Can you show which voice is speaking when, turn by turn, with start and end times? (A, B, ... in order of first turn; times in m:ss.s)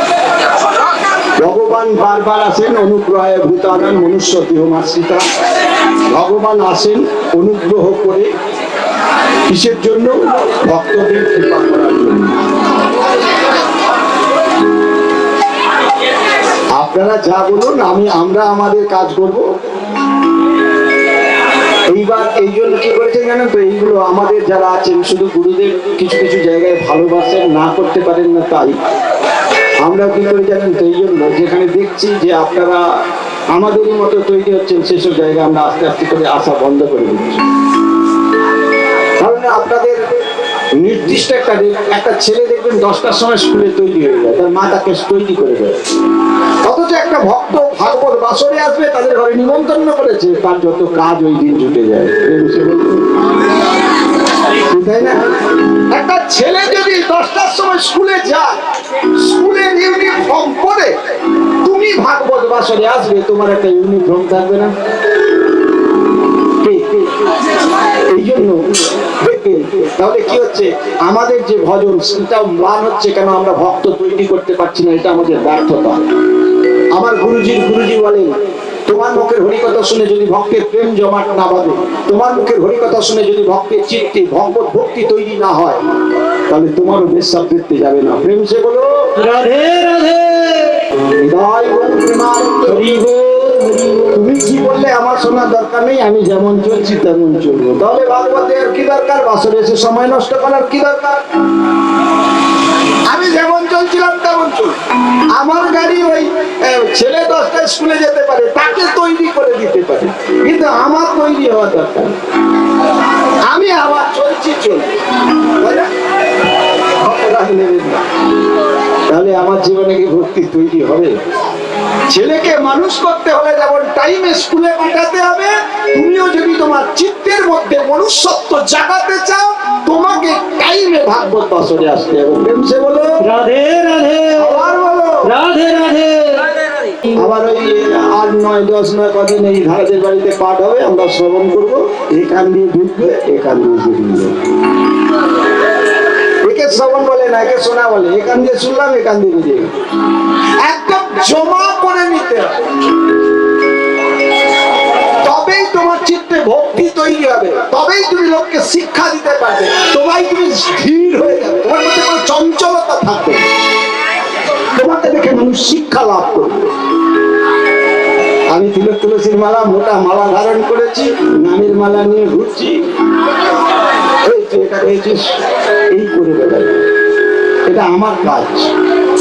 0:01.4-0:05.2 A
0:06.1-0:08.3 A
0:09.5-0:12.4 A
0:16.8-0:19.5 A
0:21.9-0:28.8 A
0:29.8-0:32.8 A
0:33.5-0:37.4 A
0:39.2-0:40.0 A
0:40.8-0:45.8 A
0:46.6-0:53.1 A
0:54.7-0:55.3 A
0:55.9-0:58.6 A
0:59.1-1:01.0 A
1:01.6-1:04.7 A
1:06.6-1:07.1 A
1:08.1-1:16.1 A
1:17.0-1:25.8 A
1:26.5-1:29.1 A
1:29.2-1:30.8 B
1:31.2-1:33.0 A
1:32.7-1:34.3 B
1:34.1-1:41.2 A
1:43.1-1:44.8 A
1:45.4-1:52.2 A
1:53.5-1:54.9 A
1:55.6-1:55.9 A
1:57.0-1:58.0 A
1:59.1-2:01.1 A
2:02.1-2:13.2 A
2:13.2-2:14.7 B
2:14.4-2:15.3 A
2:15.2-2:17.2 B
2:17.2-2:24.4 A
2:26.4-2:29.7 A
2:30.6-2:32.6 A
2:35.2-2:43.4 A
2:44.8-2:46.7 A
2:48.5-2:52.8 A
2:54.3-2:56.8 A
2:57.7-2:58.7 A